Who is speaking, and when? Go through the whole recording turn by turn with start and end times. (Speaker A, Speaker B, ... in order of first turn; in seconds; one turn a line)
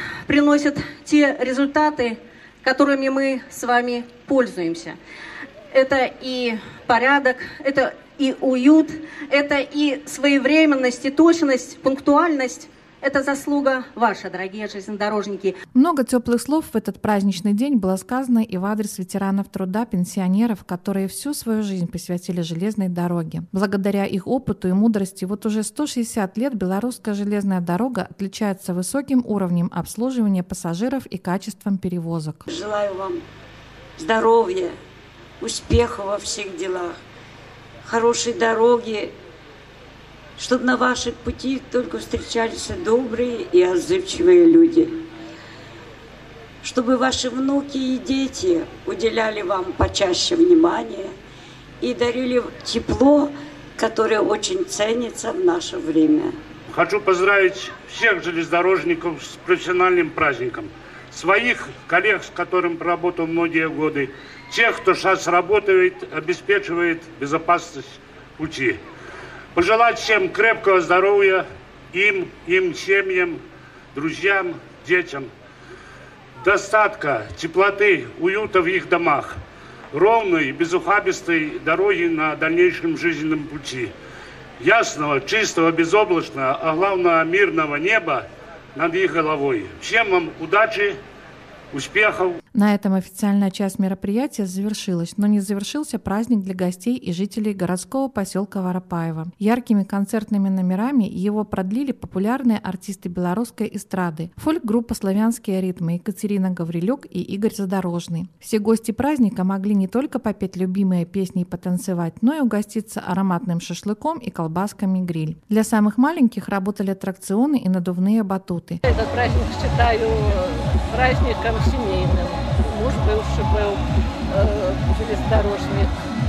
Speaker A: 0.2-5.0
Speaker A: 5.7-15.6
Speaker B: 15.7-32.4
Speaker C: 32.5-33.2
Speaker C: 34.0-34.8
Speaker C: 35.4-37.0
Speaker C: 37.8-39.1
Speaker C: 40.4-45.0
Speaker C: 46.6-51.1
Speaker C: 51.8-56.3
Speaker D: 56.7-68.8
Speaker D: 69.5-73.4
Speaker D: 73.9-75.3
Speaker D: 76.4-79.4
Speaker D: 79.9-83.9
Speaker D: 84.6-91.0
Speaker D: 91.7-92.3
Speaker B: 92.5-118.8
Speaker E: 118.8-125.9